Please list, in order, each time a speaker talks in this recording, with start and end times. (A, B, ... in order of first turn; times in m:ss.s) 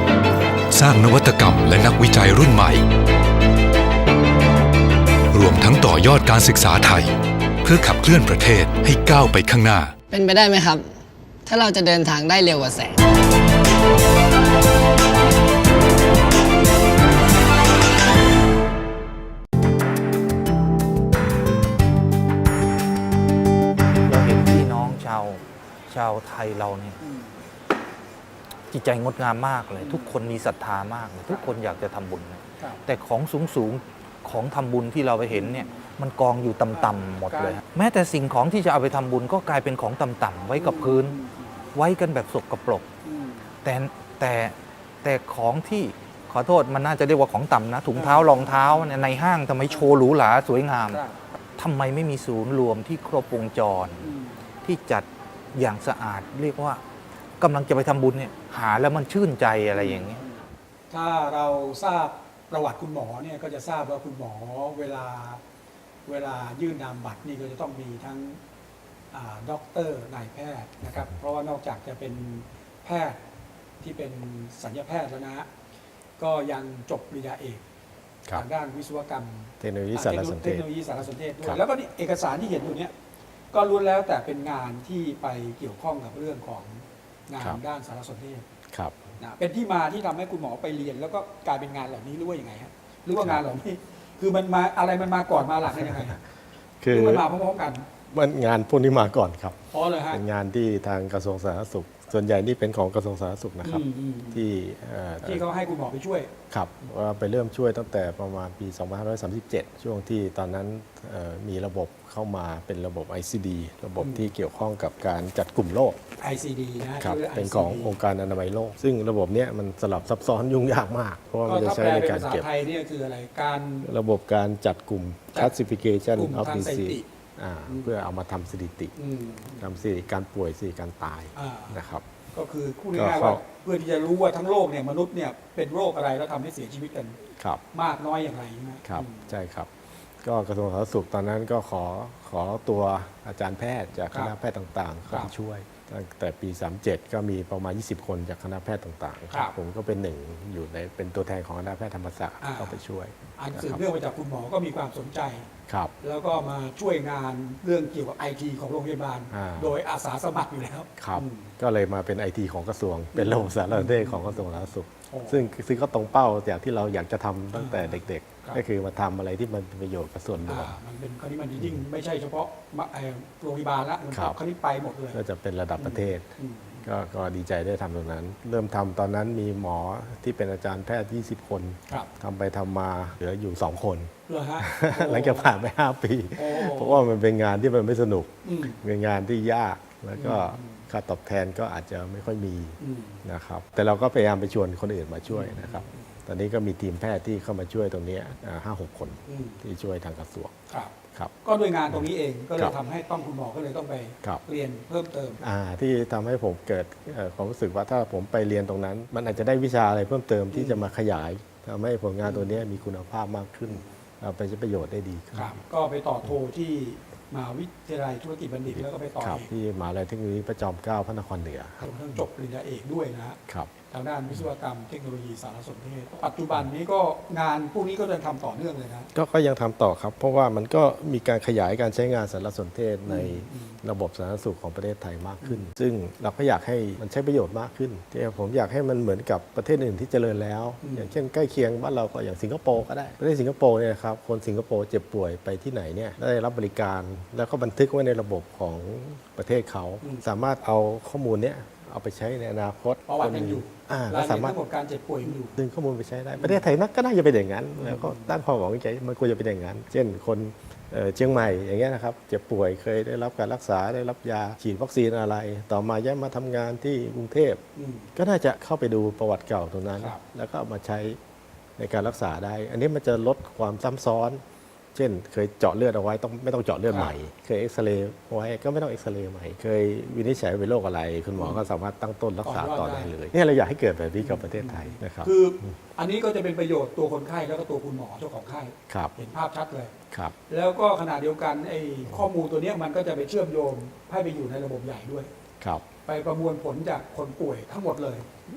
0:00.7-0:02.8 A
0:05.3-0:07.1 A
0:07.6-0:09.9 A
0:10.1-0:10.9 B
0:11.4-0:13.0 B
0:24.1-0:27.0 C
0:27.0-0:27.3 D
0:28.7-0:41.2 C
0:29.8-0:30.2 D
0:35.3-0:35.8 D
0:36.7-0:37.6 D
0:40.5-0:41.4 D
0:41.7-0:42.9 C
0:43.0-0:43.4 D
0:43.6-0:51.0 C
0:48.0-0:48.8 D
0:50.9-0:51.1 D
0:51.6-0:54.0 C
0:54.0-0:54.4 D
0:54.6-0:56.8 C
0:57.4-1:00.2 C
0:59.7-1:00.3 D
1:00.9-1:05.4 D
1:06.0-1:08.4 D
1:09.1-1:13.2 D
1:13.8-1:15.5 D
1:16.2-1:17.6 D
1:18.3-1:22.9 D
1:19.6-1:20.7 E
1:23.5-1:28.4 D
1:28.7-1:29.1 E
1:29.2-1:36.2 D
1:35.8-1:36.1 E
1:36.8-1:37.2 E
1:36.9-1:37.8 D
1:38.1-1:45.4 E
1:39.7-1:40.2 D
1:43.6-1:44.4 D
1:45.2-1:46.3 D
1:46.5-1:56.0 E
1:54.0-1:54.3 D
1:56.2-1:57.9 D
1:57.0-2:02.5 E
2:01.4-2:03.9 D
2:03.8-2:09.0 E
2:06.2-2:07.0 D
2:09.0-2:09.6 D
2:09.6-2:12.0 E
2:11.4-2:17.2 D
2:12.9-2:13.4 E
2:17.4-2:17.6 E
2:17.7-2:19.3 D
2:18.8-2:33.8 E
2:32.4-2:32.8 D
2:33.4-2:35.5 D
2:35.7-2:35.9 E
2:36.0-2:41.5 D
2:39.3-2:39.8 E
2:41.0-2:50.8 E
2:43.1-2:44.4 D
2:45.1-2:45.4 D
2:47.5-2:48.6 D
2:50.5-2:55.2 D
2:54.1-2:54.4 E
2:55.1-2:56.3 E
2:55.8-2:56.8 D
2:56.8-3:20.6 E
3:04.3-3:05.5 D
3:06.4-3:07.0 D
3:08.4-3:08.8 D
3:10.2-3:10.8 D
3:12.8-3:13.2 D
3:15.3-3:16.1 D
3:19.3-3:19.6 D
3:20.7-3:25.4 D
3:21.9-3:22.7 E
3:25.4-3:35.6 E
3:30.5-3:30.8 D
3:32.2-3:32.6 D
3:35.3-3:39.5 D
3:38.7-3:41.8 E
3:41.8-3:43.4 D
3:43.9-3:49.1 D
3:49.1-4:14.6 E
3:53.1-3:53.8 D
3:55.4-3:55.7 D
4:00.8-4:01.1 D
4:13.1-4:15.6 D
4:15.2-4:27.6 E
4:17.8-4:18.3 D
4:27.8-4:28.1 D
4:28.1-4:31.2 E
4:31.8-4:34.4 E
4:34.9-4:45.7 E
4:36.9-4:37.1 D
4:41.4-4:41.6 D
4:42.4-4:43.1 D
4:44.2-4:49.9 D
4:48.9-4:49.1 E
4:50.5-4:55.3 D
4:55.6-4:55.8 E
4:56.0-4:58.3 D